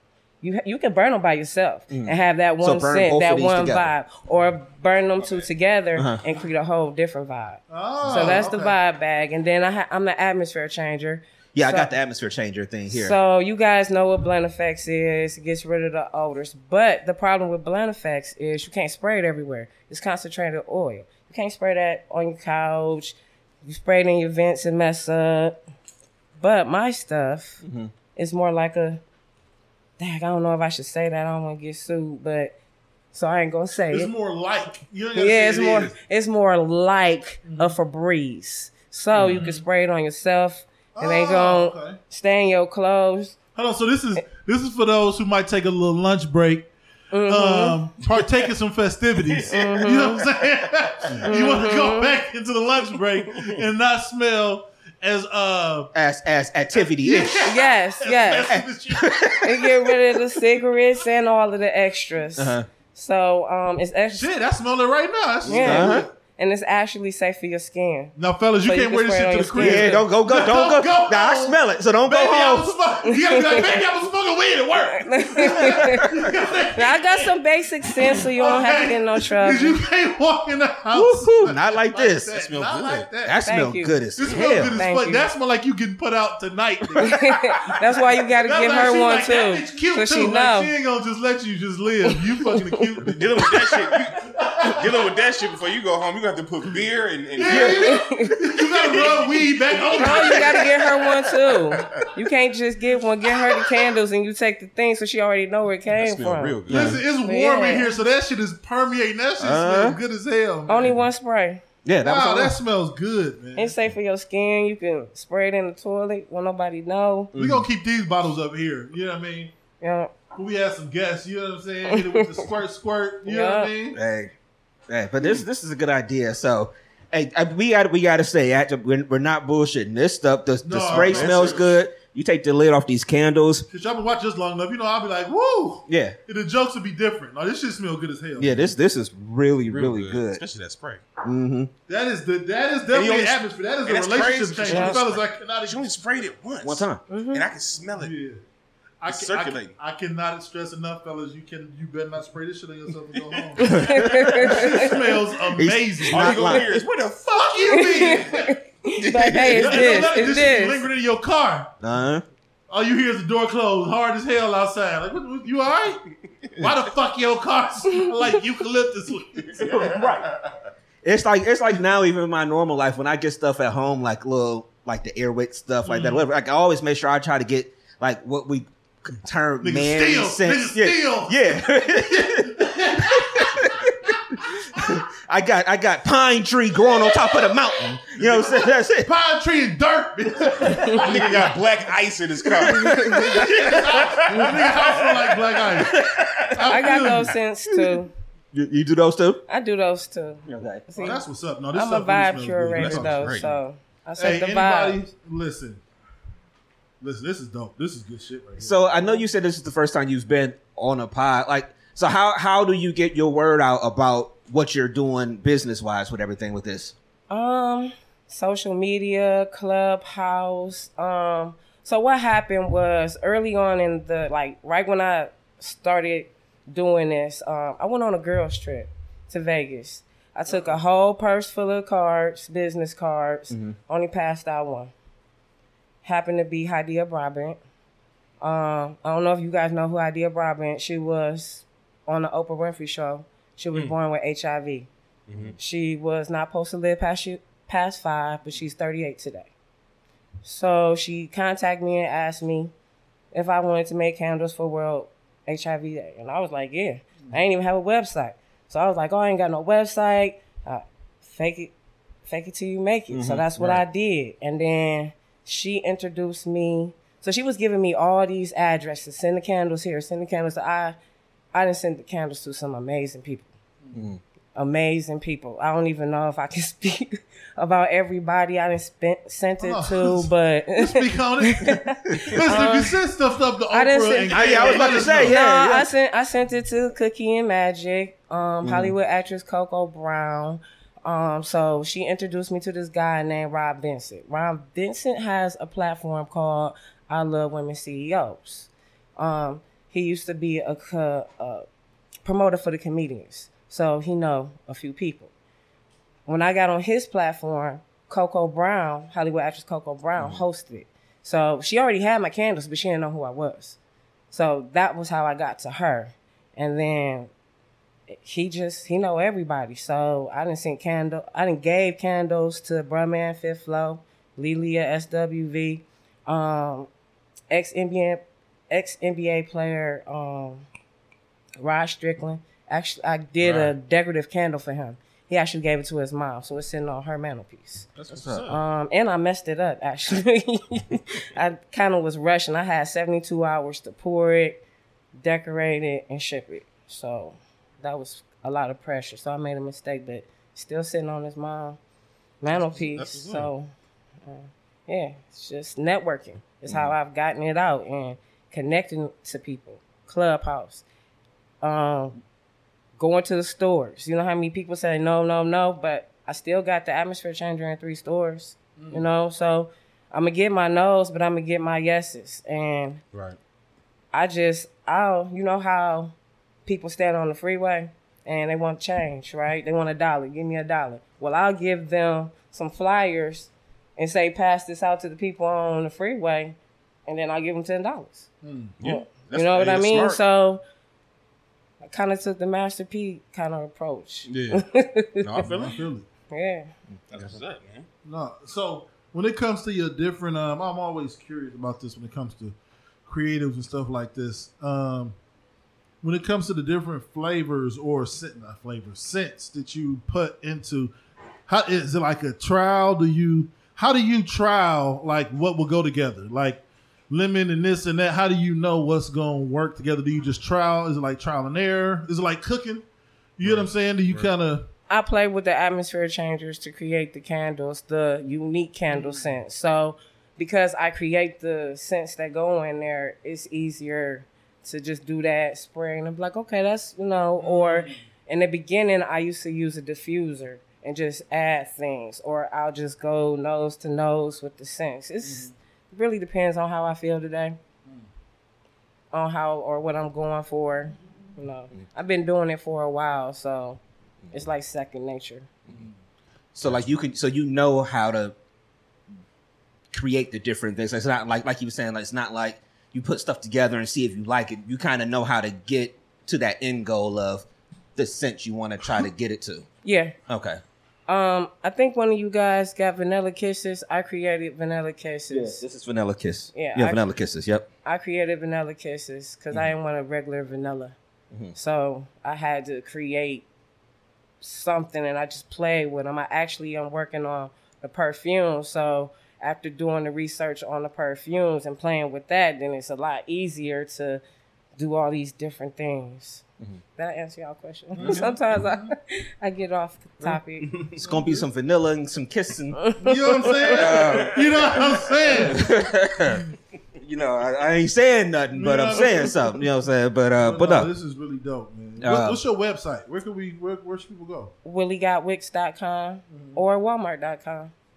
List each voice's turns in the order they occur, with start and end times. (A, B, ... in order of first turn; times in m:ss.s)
0:00.4-0:11.9 A
0:01.9-0:03.9 B
0:05.2-0:05.4 C
0:06.0-0:06.2 B
0:07.7-0:08.8 D
0:11.5-0:13.2 B
0:12.9-0:25.6 A
0:26.4-0:27.6 A
0:27.6-0:27.9 B
0:28.2-0:29.0 A
0:30.0-0:32.5 A
0:33.1-0:34.1 A
0:33.9-0:35.9 D
0:35.2-0:43.4 A
0:37.4-0:37.8 D
0:39.1-0:39.6 D
0:41.0-0:42.0 D
0:43.5-0:46.7 D
0:47.1-0:47.8 A
0:47.2-0:55.9 D
0:49.3-0:49.6 C
0:49.5-0:50.2 A
0:51.2-0:52.1 A
0:55.9-0:57.5 B
0:56.7-0:59.4 D
0:57.4-0:58.5 A
0:58.5-0:59.6 B
0:59.4-1:04.3 A
1:02.4-1:02.7 B
1:04.1-1:06.1 D
1:05.4-1:10.1 A
1:05.5-1:06.1 B
1:08.2-1:17.3 D
1:09.6-1:12.7 B
1:15.0-1:16.1 A
1:16.8-1:19.8 A
1:17.8-1:23.4 D
1:20.9-1:22.4 B
1:22.4-1:23.1 C
1:23.2-1:24.8 B
1:23.4-1:24.0 A
1:24.1-1:27.4 D
1:24.8-1:25.3 A
1:27.0-1:30.7 A
1:28.4-1:35.1 D
1:33.1-1:37.8 C
1:37.3-1:40.7 D
1:37.5-1:38.4 A
1:37.5-1:37.8 B
1:38.8-1:40.1 C
1:40.0-1:46.6 A
1:45.9-1:47.0 C
1:46.7-1:47.0 B
1:46.7-1:51.0 D
1:47.2-1:47.9 A
1:49.4-1:50.0 B
1:50.7-1:51.6 A
1:51.8-1:52.6 B
1:52.0-1:53.7 D
1:53.6-1:57.3 A
1:57.3-1:57.7 B
1:57.4-1:59.5 D
1:59.8-2:00.1 A
2:00.3-2:04.0 D
2:01.9-2:02.2 A
2:03.2-2:03.7 A
2:03.9-2:04.3 B
2:04.9-2:13.7 B
2:10.6-2:11.7 D
2:10.9-2:11.7 C
2:13.7-2:18.8 D
2:15.9-2:16.2 B
2:18.4-2:20.4 B
2:19.7-2:21.0 C
2:21.2-2:21.7 B
2:21.9-2:25.8 D
2:22.9-2:28.1 C
2:24.7-2:25.0 A
2:26.6-2:27.0 B
2:27.1-2:27.4 A
2:28.0-2:28.4 D
2:29.0-2:36.6 D
2:29.1-2:29.7 C
2:33.1-2:33.7 C
2:33.6-2:34.9 A
2:33.6-2:34.4 B
2:35.5-2:36.7 B
2:36.1-2:37.3 C
2:37.2-2:38.6 D
2:37.7-2:40.8 A
2:39.0-2:40.2 B
2:39.0-2:40.0 C
2:39.5-2:41.7 D
2:41.8-2:42.2 B
2:42.7-2:46.0 D
2:46.6-2:49.7 D
2:49.6-2:50.3 B
2:49.6-2:50.5 C
2:51.0-3:09.1 B
2:55.8-2:56.2 D
2:59.6-3:04.1 D
3:08.3-3:08.6 C
3:09.0-3:11.6 D
3:10.9-3:15.9 C
3:12.5-3:13.5 B
3:13.2-3:15.9 D
3:15.8-3:16.8 B
3:16.5-3:17.3 D
3:16.7-3:18.1 A
3:17.7-3:18.0 B
3:18.5-3:19.4 B
3:19.5-3:21.2 A
3:20.4-3:20.8 B
3:20.9-3:23.5 D
3:21.7-3:25.0 A
3:22.7-3:23.5 C
3:24.2-3:25.8 D
3:27.0-3:29.1 D
3:28.6-3:36.9 B
3:37.3-3:54.9 A
3:53.5-3:53.8 B
3:56.0-3:57.6 A
3:58.4-4:04.9 A
4:05.3-4:05.5 C
4:05.6-4:09.5 A
4:10.4-4:12.7 A
4:13.3-4:21.7 A
4:22.2-4:31.0 A
4:23.1-4:23.8 B
4:31.5-4:33.5 A
4:33.9-4:34.2 B
4:34.6-4:43.0 A
4:39.6-4:45.4 D
4:43.7-5:01.6 A
4:44.3-4:45.9 B
4:44.5-4:45.1 C
4:48.6-4:48.9 B
5:02.2-5:05.3 A
5:06.2-5:13.8 A
5:14.3-5:17.3 A
5:18.1-5:26.9 A
5:27.5-5:30.6 A
5:31.6-5:37.9 A
5:33.4-5:33.7 C
5:38.0-5:38.6 C
5:38.1-5:38.5 B
5:38.5-5:44.6 A
5:45.2-5:51.8 A
5:52.4-5:53.7 A
5:52.5-5:53.5 C
5:54.2-6:00.8 A
6:01.6-6:02.2 A
6:03.0-6:13.0 A
6:08.8-6:09.1 D
6:14.1-6:16.1 A
6:16.6-6:28.3 A
6:28.4-6:28.7 D
6:28.8-6:30.2 C
6:28.8-6:30.6 A
6:31.8-6:35.2 A
6:34.3-6:34.6 C
6:35.2-6:35.8 C
6:35.4-6:36.0 D
6:36.3-6:36.7 A
6:37.1-6:37.8 C
6:38.0-6:42.6 D
6:43.1-6:45.2 D
6:46.0-6:50.9 D
6:51.5-7:02.8 D
7:03.4-7:04.7 D
7:03.4-7:04.3 C
7:04.9-7:27.6 A
7:08.9-7:09.2 D
7:17.4-7:18.0 D
7:25.2-7:25.5 D
7:29.1-7:33.8 A
7:34.3-7:35.5 A
7:36.5-7:38.3 B
7:39.9-7:49.7 B
7:49.8-7:50.2 A
7:50.3-7:50.6 B
7:51.1-7:55.6 A
7:55.3-7:57.7 B
7:56.5-7:57.1 A
7:57.8-8:01.0 A
8:01.5-8:03.5 A
8:04.4-8:14.2 A
8:14.8-8:16.4 A
8:17.0-8:20.7 A
8:17.9-8:18.9 D
8:20.6-8:20.9 C
8:20.9-8:22.8 B
8:21.0-8:21.4 D
8:22.8-8:23.7 A
8:23.0-8:25.7 D
8:23.7-8:24.4 B
8:24.1-8:25.4 C
8:25.3-8:30.9 B
8:28.5-8:29.6 D
8:30.4-8:34.5 D
8:32.0-8:32.4 B
8:34.6-8:37.7 A
8:36.3-8:36.6 D